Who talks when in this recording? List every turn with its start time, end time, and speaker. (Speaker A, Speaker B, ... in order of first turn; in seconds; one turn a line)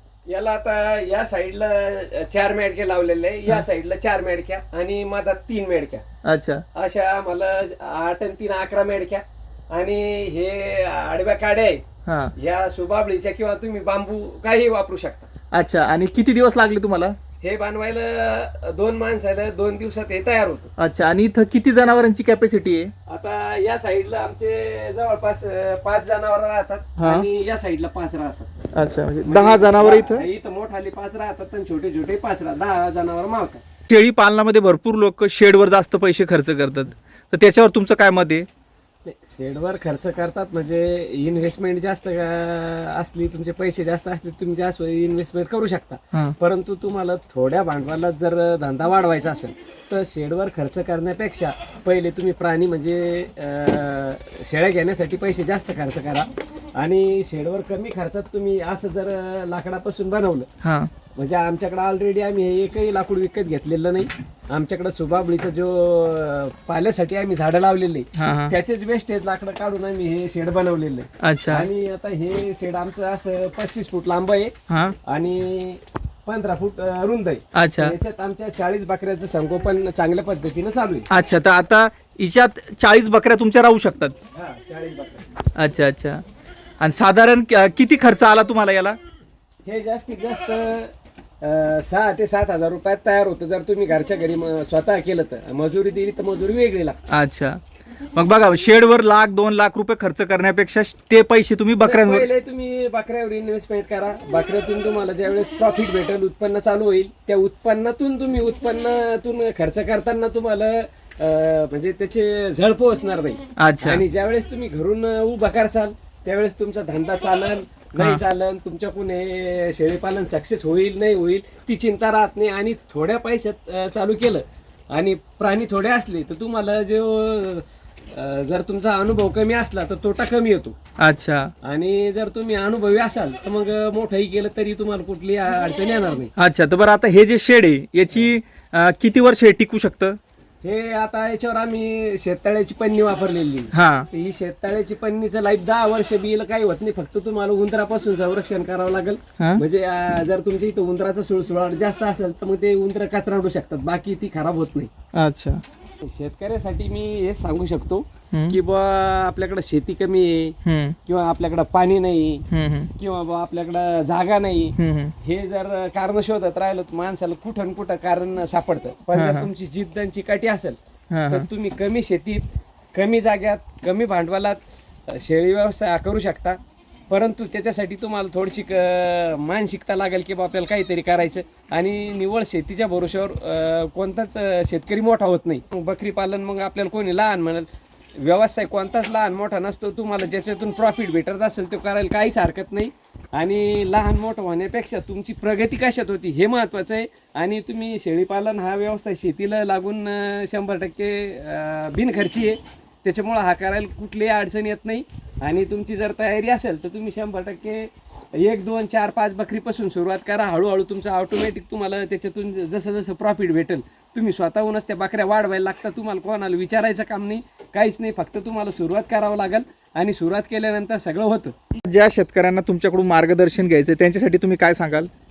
Speaker A: 0.3-6.0
Speaker B: 6.2-6.6
Speaker A: 6.8-11.8
Speaker B: 12.1-12.3
Speaker A: 12.4-15.3
Speaker B: 15.5-17.1
Speaker A: 17.4-20.7
Speaker B: 20.8-22.9
Speaker A: 23.1-28.5
Speaker B: 27.0-27.3
Speaker B: 28.8-30.3
Speaker A: 29.3-33.6
Speaker B: 33.9-38.5
Speaker A: 39.0-60.5
Speaker B: 60.6-60.9
Speaker A: 61.1-74.5
Speaker B: 68.2-68.5
Speaker B: 71.2-71.7
Speaker B: 74.7-75.0
Speaker A: 75.1-81.1
Speaker B: 77.5-78.0
Speaker B: 81.1-84.2
Speaker A: 84.3-85.3
Speaker B: 85.6-86.2
Speaker B: 86.8-89.0
Speaker A: 89.7-97.0
Speaker B: 97.1-97.6
Speaker B: 98.2-102.3
Speaker A: 101.8-130.8
Speaker B: 113.6-114.0
Speaker B: 131.0-131.5
Speaker A: 131.7-136.3
Speaker B: 136.4-140.2
Speaker A: 140.6-154.9
Speaker B: 143.7-144.1
Speaker B: 155.2-155.6
Speaker A: 156.0-162.4
Speaker B: 158.3-158.6
Speaker B: 160.7-161.0
Speaker B: 162.5-162.9
Speaker A: 163.0-170.8
Speaker B: 164.8-165.1
Speaker B: 169.1-169.5
Speaker B: 171.1-171.5
Speaker A: 171.3-176.6
Speaker A: 177.1-187.7
Speaker A: 188.2-221.5
Speaker B: 221.9-225.1